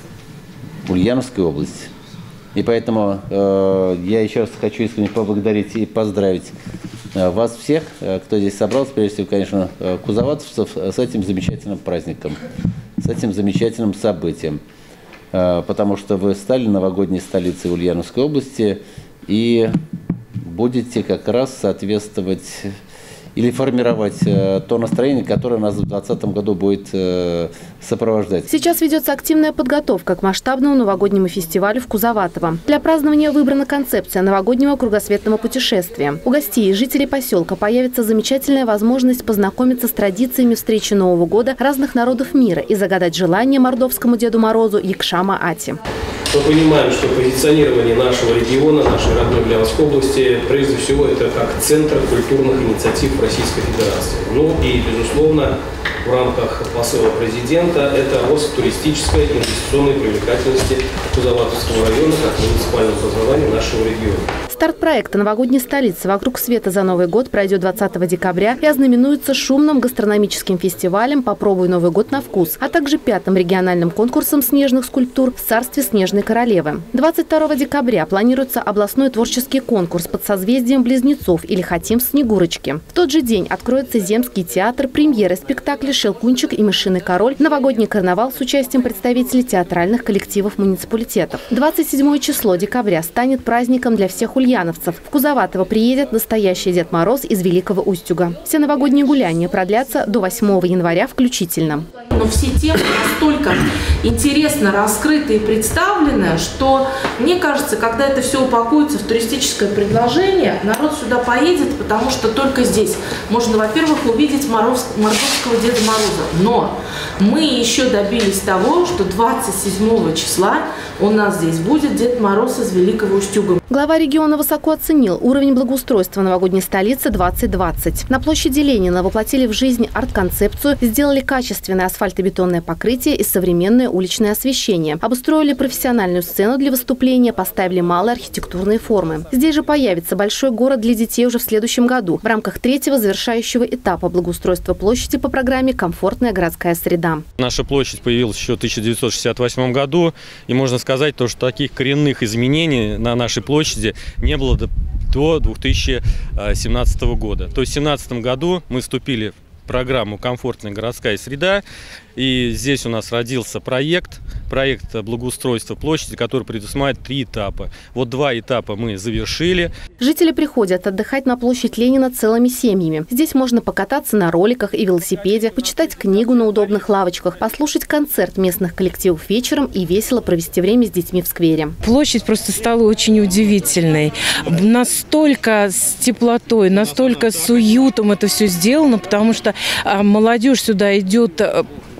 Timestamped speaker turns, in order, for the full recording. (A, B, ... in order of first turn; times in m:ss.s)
0:00.9-0:01.9 A
0:02.5-0:06.5 A
0:07.1-0:12.4 A
0:13.0-0:14.6 A
0:15.3-0:19.8 A
0:20.4-0:22.7 A
0:23.4-0:28.5 A
0:28.5-0:45.8 B
0:46.3-1:04.2 C
1:04.5-1:41.9 B
1:42.1-2:03.6 D
1:47.6-1:50.5 E
1:51.2-1:51.5 E
1:59.4-1:59.8 E
2:03.7-2:27.2 B
2:27.4-2:41.6 F
2:42.2-2:49.7 F
2:50.0-3:01.8 B
3:01.8-3:11.6 E